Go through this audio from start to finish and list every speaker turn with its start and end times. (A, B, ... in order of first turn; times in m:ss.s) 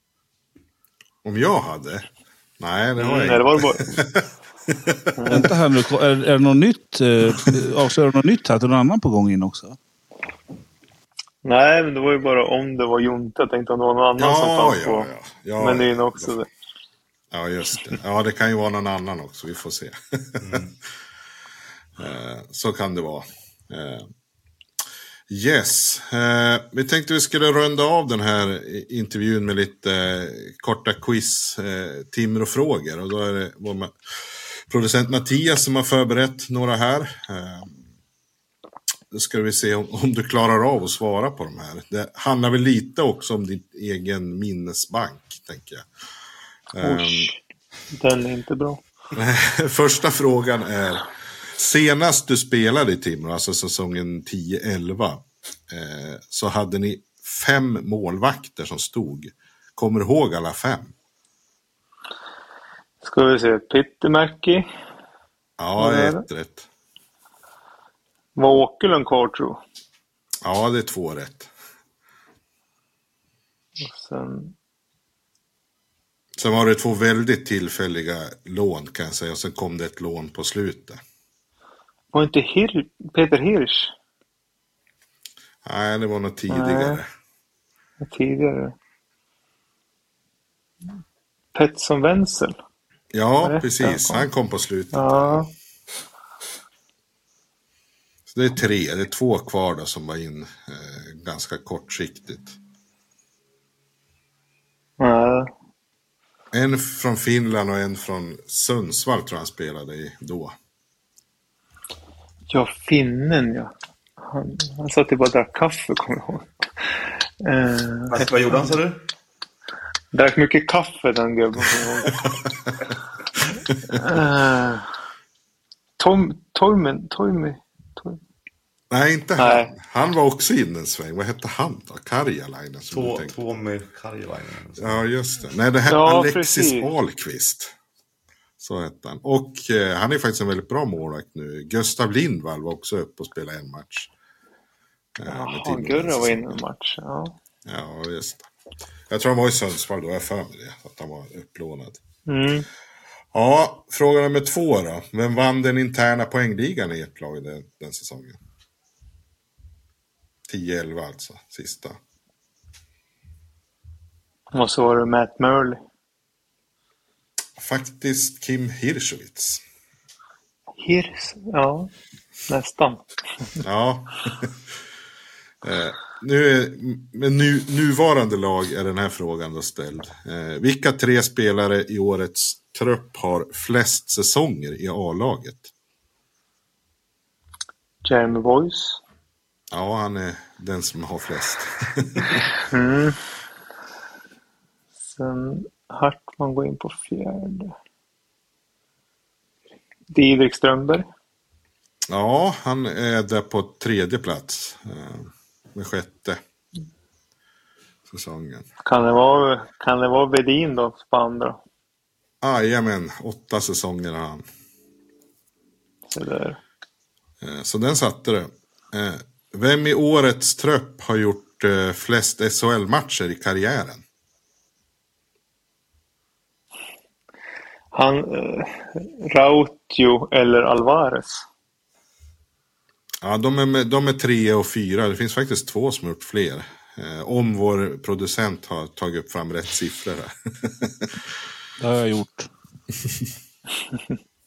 0:01.2-0:05.1 A
0:03.0-0:04.0 B
0:05.2-0:05.5 B
0:05.3-0:09.8 C
0:11.4-0:15.1 B
0:14.2-0:16.4 A
0:15.6-0:16.5 B
0:17.3-0:20.6 A
0:22.0-0:24.1 A
0:25.3-0:33.9 A
0:34.7-0:37.8 A
0:39.1-0:45.9 A
0:46.7-0:47.3 A
0:46.8-0:47.4 B
0:47.9-0:48.8 B
0:49.1-1:00.9 A
1:03.0-1:04.7 B
1:05.6-1:06.7 A
1:05.8-1:06.2 B
1:08.4-1:09.6 B
1:10.4-1:11.5 A
1:13.8-1:14.5 B
1:16.4-1:21.0 A
1:22.1-1:23.9 B
1:25.6-1:27.1 A
1:26.5-1:27.0 B
1:28.0-1:28.7 B
1:31.6-1:32.6 B
1:33.1-1:35.4 A
1:33.4-1:34.3 B
1:34.9-1:35.5 B
1:38.3-1:42.6 A
1:45.0-1:45.5 B
1:46.5-1:50.6 A
1:52.5-1:53.7 B
1:54.2-1:56.5 B
1:57.4-1:58.1 B
1:58.1-1:59.0 D
2:00.1-2:02.1 B
2:03.9-2:04.9 B
2:06.0-2:08.2 B
2:08.9-2:13.3 A
2:09.4-2:09.7 B
2:12.9-2:15.0 D
2:14.8-2:17.7 A
2:15.9-2:16.9 B
2:18.6-2:24.1 A
2:25.2-2:26.6 A
2:25.3-2:27.4 B
2:27.6-2:28.5 A
2:29.1-2:32.0 A
2:32.3-2:32.7 B
2:33.3-2:38.4 A
2:40.5-2:42.0 A
2:44.5-2:45.8 B
2:47.6-2:49.6 A
2:50.8-2:51.9 B
2:52.5-2:53.0 B
2:53.6-2:54.6 A
2:55.6-3:05.7 A
3:08.0-3:09.0 B
3:09.7-3:12.5 A
3:12.7-3:13.2 B
3:15.1-3:17.7 B
3:20.1-3:21.0 B
3:22.1-3:26.4 A
3:28.1-3:28.7 A
3:28.9-3:31.6 B
3:32.4-3:34.4 A
3:36.1-3:36.6 B
3:37.4-3:44.0 A
3:47.9-3:51.4 B
3:53.2-4:01.2 A
4:01.8-4:02.5 C